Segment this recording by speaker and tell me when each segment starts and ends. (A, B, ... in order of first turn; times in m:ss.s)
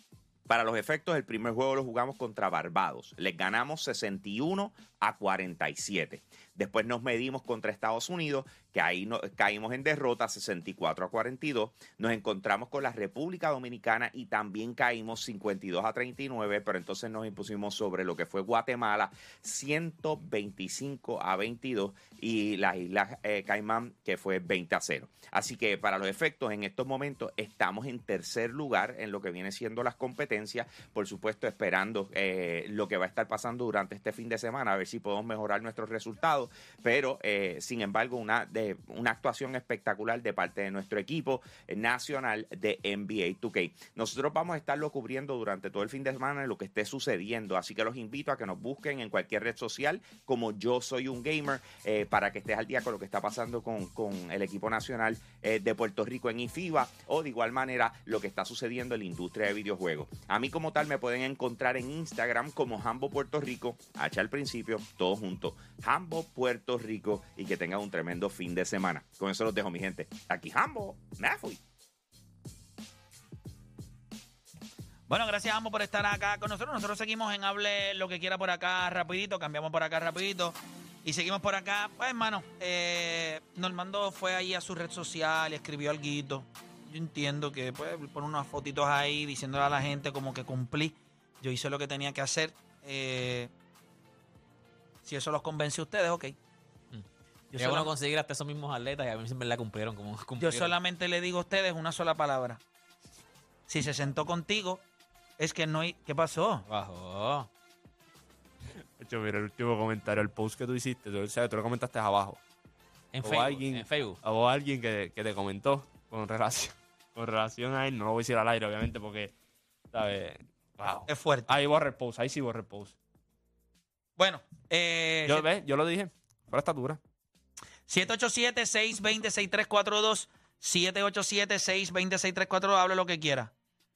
0:00.5-1:11.6 A
1:15.1-1:33.5 B
1:35.0-1:36.4 B
1:36.9-1:40.7 C
1:37.5-1:37.9 B
1:40.4-1:42.6 B
1:43.7-1:44.8 B
1:45.4-1:46.7 B
1:46.7-1:47.5 C
1:49.0-1:52.4 D
1:53.1-1:54.2 C
1:53.2-1:59.3 D
1:59.9-2:03.0 D
2:01.1-2:01.6 B
2:04.2-2:05.5 B
2:05.3-2:07.0 D
2:07.9-2:13.5 B